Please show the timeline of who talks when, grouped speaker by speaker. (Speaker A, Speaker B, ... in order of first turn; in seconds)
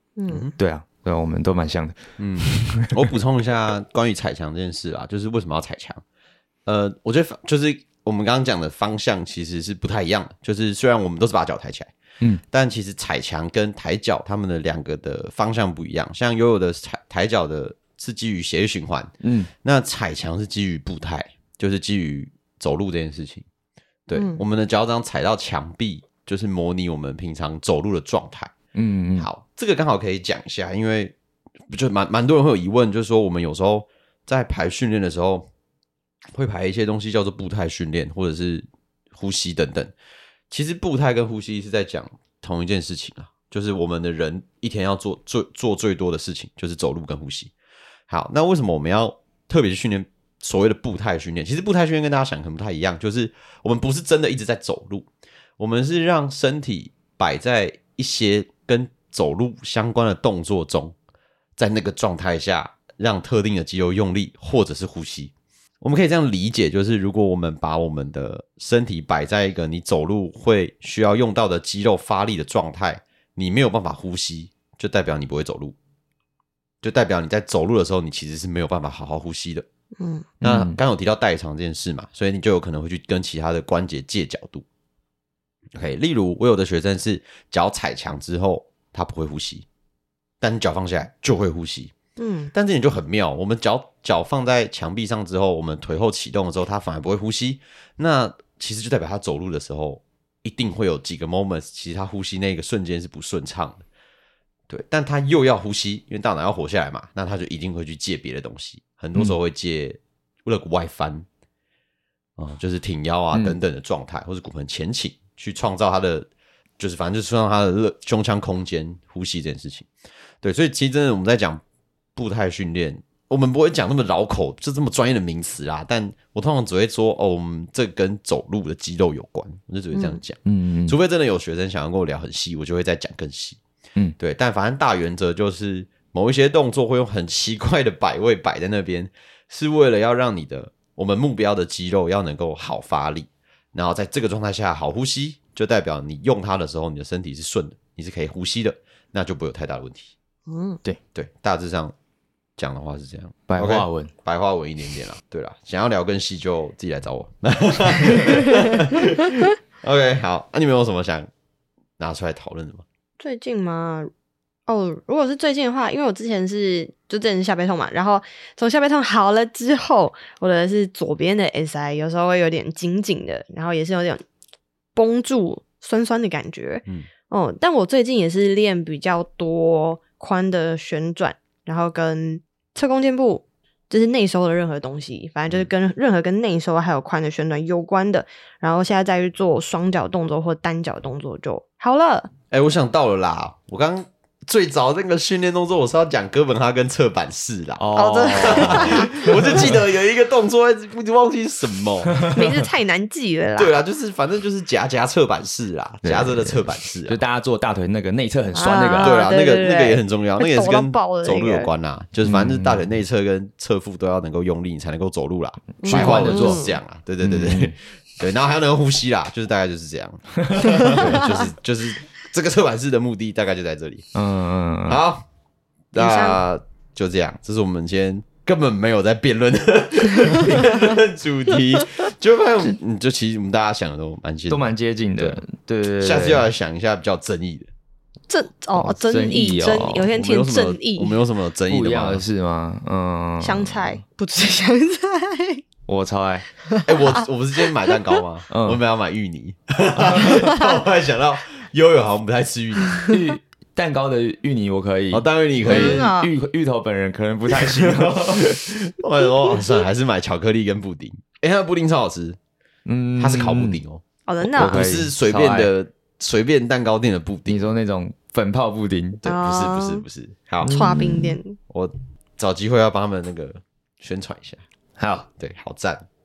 Speaker A: 0.2-0.4, 24.1-24.4, 80.0-80.3, 92.2-92.5, 129.9-130.2, 150.5-150.8, 163.2-164.1, 164.7-174.2, 174.9-192.3, 197.9-199.3, 202.2-203.8, 208.5-211.7, 215.8-216.8, 225.9-226.4, 238.3-241.2, 243.4-245.6, 246.6-247.2, 252.9-253.2, 255.7-256.3, 264.3-264.8, 269.2-270.0, 270.6-271.6
Speaker B: 0.3-0.6, 2.2-6.0, 6.7-11.9, 12.5-19.1, 19.6-23.4, 24.1-28.5, 29.2-31.1, 31.7-35.5, 36.3-39.9, 40.5-47.5, 48.1-60.9, 61.6-75.8, 76.8-79.7, 80.4-84.6, 85.7-89.7, 90.4-91.9, 92.5-103.8, 104.7-111.2, 112.4-116.3, 116.8-119.9, 120.4-121.6, 122.2-133.6, 134.2-150.1, 151.1-151.9, 152.6-161.3, 162.0-162.8, 192.5-202.2, 203.6-207.2, 209.0-224.1, 224.9-225.2, 225.9-235.4, 236.0-237.7, 239.9-242.2, 246.8-253.0, 255.1-256.1, 257.5-262.4, 263.2-264.0, 264.6-267.6, 269.2-270.8, 271.7-274.6, 275.4-276.0
Speaker C: 0.6-3.1, 19.2-19.5, 28.7-29.3, 80.4-80.8, 130.4-130.9, 153.5-154.1, 197.8-199.7, 202.1-202.7, 206.0-209.1, 212.2-212.8, 215.8-216.6, 217.2-217.7, 220.4-221.3, 224.1-225.0, 234.5-236.5, 238.8-240.1, 241.7-244.0, 245.9-246.5, 248.5-248.8, 253.1-258.5, 262.9-263.8, 264.4-265.7, 267.5-269.2, 270.6-271.4, 275.0-275.3